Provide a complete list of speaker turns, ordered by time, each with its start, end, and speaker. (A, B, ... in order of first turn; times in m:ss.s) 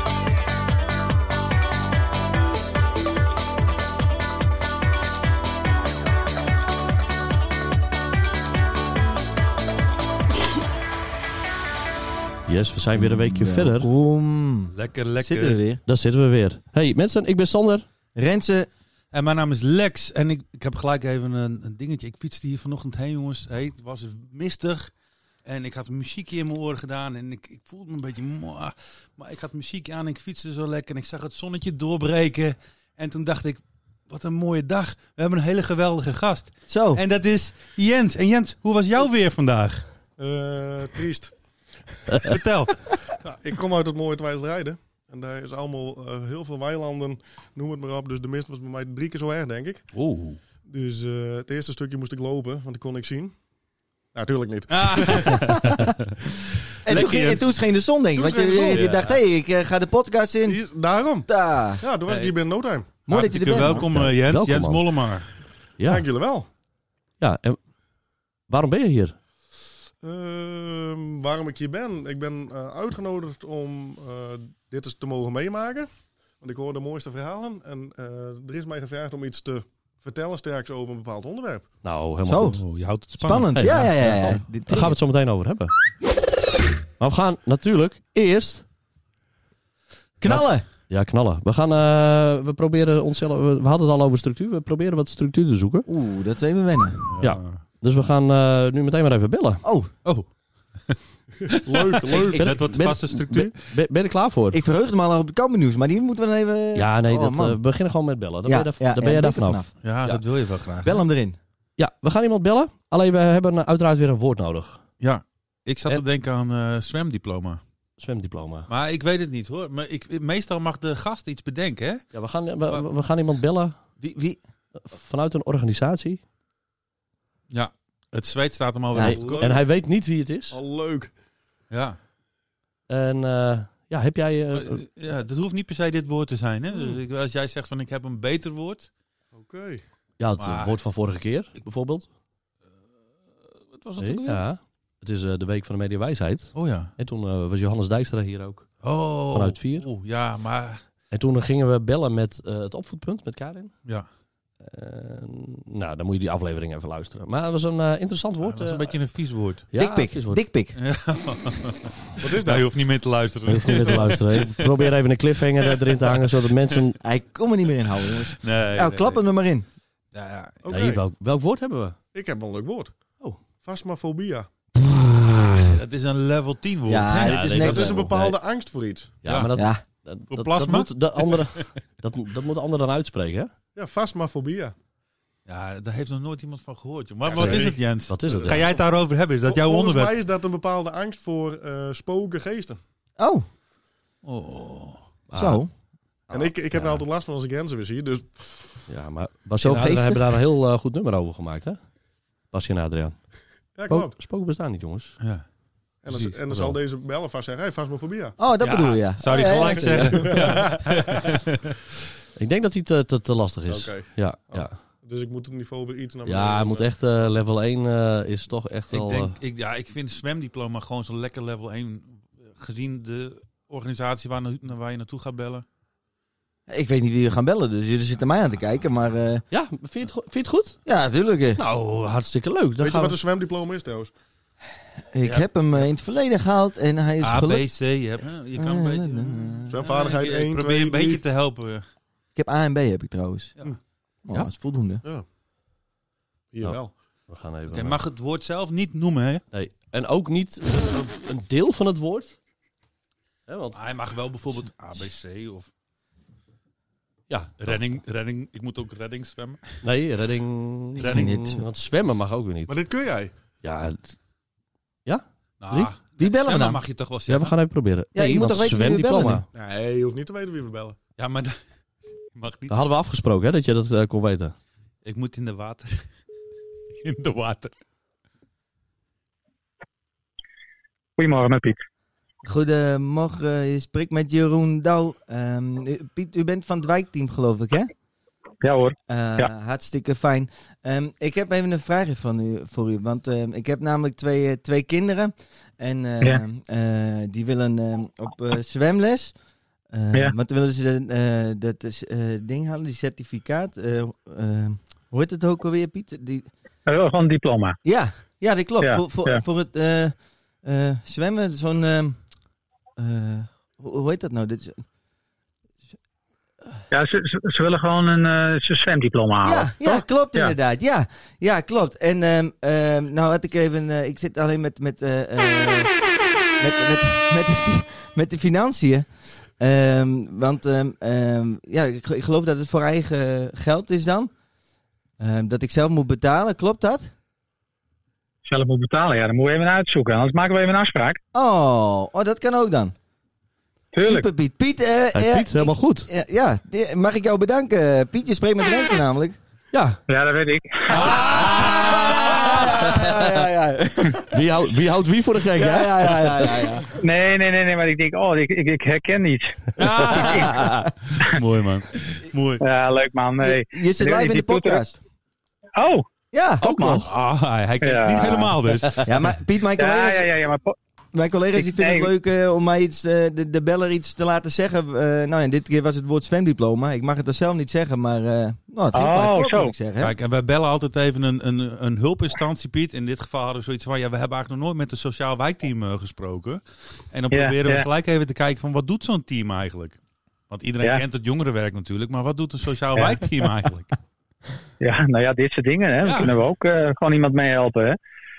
0:12.5-0:13.9 A
0:12.9-0:15.8 B
0:14.7-0:15.6 C
0:15.8-0:17.8 A
0:18.2-0:18.7 B
0:19.1-0:24.9 C
0:25.4-0:39.9 C
0:36.7-0:37.0 B
0:40.2-0:41.3 D
0:42.1-0:42.9 C
0:43.2-0:49.8 D
0:49.9-0:50.3 C
0:50.6-0:53.3 D
0:54.1-0:55.6 D
0:54.7-0:56.1 C
0:56.8-0:57.5 C
0:56.8-1:00.6 B
0:58.1-0:59.0 D
0:58.7-0:59.2 C
1:00.4-1:01.3 D
1:01.3-1:01.8 B
1:01.8-1:03.0 D
1:02.1-1:02.3 C
1:03.0-1:05.3 C
1:03.0-1:03.9 B
1:03.6-1:04.9 A
1:05.8-1:06.1 A
1:05.8-1:06.5 D
1:07.2-1:07.6 A
1:08.5-1:09.2 A
1:10.0-1:15.9 D
1:16.4-1:21.7 D
1:21.8-1:22.6 A
1:22.2-1:22.6 B
1:22.4-1:23.9 C
1:23.2-1:25.0 B
1:23.5-1:25.7 A
1:27.0-1:28.6 A
1:30.2-1:30.6 B
1:30.3-1:35.9 A
1:35.9-1:37.0 B
1:37.1-1:37.6 C
1:37.2-1:39.6 A
1:39.6-1:39.9 B
1:41.4-1:42.6 D
1:41.5-1:43.6 C
1:42.3-1:44.6 A
1:44.5-1:47.6 B
1:46.7-1:50.2 A
1:48.4-1:49.7 B
1:49.8-1:51.0 C
1:50.8-1:51.4 B
1:51.8-1:54.8 A
1:55.0-1:57.6 C
1:58.0-1:58.7 A
1:58.7-2:02.1 C
2:02.1-2:03.8 A
2:04.0-2:04.4 B
2:04.8-2:06.2 A
2:07.5-2:09.5 C
2:09.0-2:10.6 A
2:09.0-2:09.7 D
2:10.5-2:11.1 D
2:11.7-2:12.0 C
2:12.9-2:14.8 A
2:14.5-2:18.9 C
2:19.3-2:19.8 D
2:20.2-2:22.1 A
2:20.4-2:20.8 C
2:23.7-2:24.4 D
2:24.0-2:29.9 A
2:26.5-2:26.9 C
2:28.8-2:30.8 C
2:31.1-2:33.7 A
2:34.6-2:38.9 A
2:38.4-2:39.6 C
2:39.7-2:40.4 A
2:39.7-2:40.8 B
2:40.8-2:44.9 C
2:42.2-2:42.7 D
2:43.5-2:47.0 A
2:46.0-2:46.7 C
2:47.0-2:49.6 B
2:48.4-2:49.2 C
2:50.1-2:50.6 C
2:50.6-2:51.0 D
2:50.7-2:52.0 A
2:52.1-2:52.9 D
2:53.6-2:54.5 D
2:54.8-2:55.7 B
2:55.6-2:57.9 C
2:56.9-2:58.1 B
2:57.2-2:58.4 A
2:57.4-2:59.1 D
2:59.2-3:03.5 A
2:59.2-2:59.5 C
2:59.5-2:59.8 B
3:00.3-3:01.6 C
3:03.7-3:04.7 D
3:05.5-3:10.1 C
3:07.2-3:08.5 D
3:07.4-3:08.7 A
3:09.4-3:12.8 D
3:13.2-3:13.4 B
3:14.2-3:15.0 C
3:15.3-3:15.6 A
3:15.3-3:15.7 B
3:16.3-3:17.0 A
3:16.3-3:18.8 D
3:18.9-3:21.8 A
3:19.6-3:20.2 B
3:22.5-3:23.2 A
3:23.7-3:24.2 D
3:23.9-3:25.2 A
3:26.0-3:28.4 D
3:26.1-3:26.4 C
3:26.5-3:26.8 A
3:28.4-3:30.3 B
3:28.6-3:31.8 C
3:29.8-3:30.1 A
3:30.2-3:31.2 D
3:32.4-3:34.8 A
3:33.7-3:36.9 D
3:36.2-3:39.4 A
3:38.9-3:45.6 C
3:46.7-3:49.4 B
3:49.5-3:50.8 A
3:50.8-3:51.6 B
3:51.6-3:53.2 A
3:52.8-3:54.1 D
3:55.1-3:57.6 B
3:57.2-4:01.8 C
3:58.6-3:59.7 B
3:59.7-4:01.2 D
4:02.3-4:03.5 B
4:04.2-4:05.0 B
4:06.5-4:06.9 D
4:06.6-4:08.0 A
4:07.7-4:09.4 C
4:09.5-4:12.4 A
4:13.5-4:13.8 A
4:13.7-4:15.7 C
4:17.3-4:17.8 A
4:17.6-4:19.8 C
4:19.8-4:22.8 A
4:21.0-4:21.4 C
4:21.0-4:21.6 B
4:22.7-4:23.3 D
4:23.6-4:24.2 A
4:25.0-4:25.9 A
4:25.6-4:27.5 C
4:26.2-4:26.8 B
4:27.3-4:29.4 A
4:28.1-4:29.4 B
4:29.5-4:31.0 D
4:31.2-4:31.6 C
4:32.3-4:32.8 C
4:32.7-4:34.5 A
4:35.0-4:36.0 C
4:37.0-4:37.7 C
4:41.2-4:41.8 E
4:42.4-4:47.9 B
4:48.6-4:49.5 E
4:49.1-4:59.3 B
4:59.9-5:06.5 B
5:06.8-5:07.8 E
5:07.8-5:12.2 B
5:08.8-5:09.4 E
5:13.0-5:14.8 B
5:16.9-5:20.5 E
5:19.4-5:26.0 B
5:26.6-5:29.1 B
5:29.6-5:34.3 B
5:35.2-5:37.1 B
5:38.4-5:41.2 E
5:41.3-5:42.9 B
5:43.9-5:44.3 E
5:44.0-5:49.4 B
5:45.1-5:46.1 A
5:49.7-5:50.0 A
5:50.1-5:51.2 E
5:50.9-5:54.4 B
5:51.2-5:53.2 A
5:54.3-5:56.6 A
5:55.5-5:56.9 B
5:57.0-6:00.7 E
5:59.8-6:02.6 C
6:02.6-6:04.8 E
6:03.4-6:05.0 B
6:05.8-6:06.1 E
6:06.3-6:06.9 B
6:06.6-6:07.0 A
6:06.6-6:07.1 E
6:07.0-6:09.1 C
6:07.8-6:08.5 E
6:09.0-6:10.5 B
6:09.8-6:10.7 E
6:11.1-6:20.1 B
6:11.6-6:12.1 E
6:18.9-6:19.7 E
6:20.0-6:30.0 C
6:27.3-6:27.8 E
6:30.5-6:33.9 C
6:33.0-6:33.2 E
6:34.8-6:38.0 E
6:36.0-6:36.4 C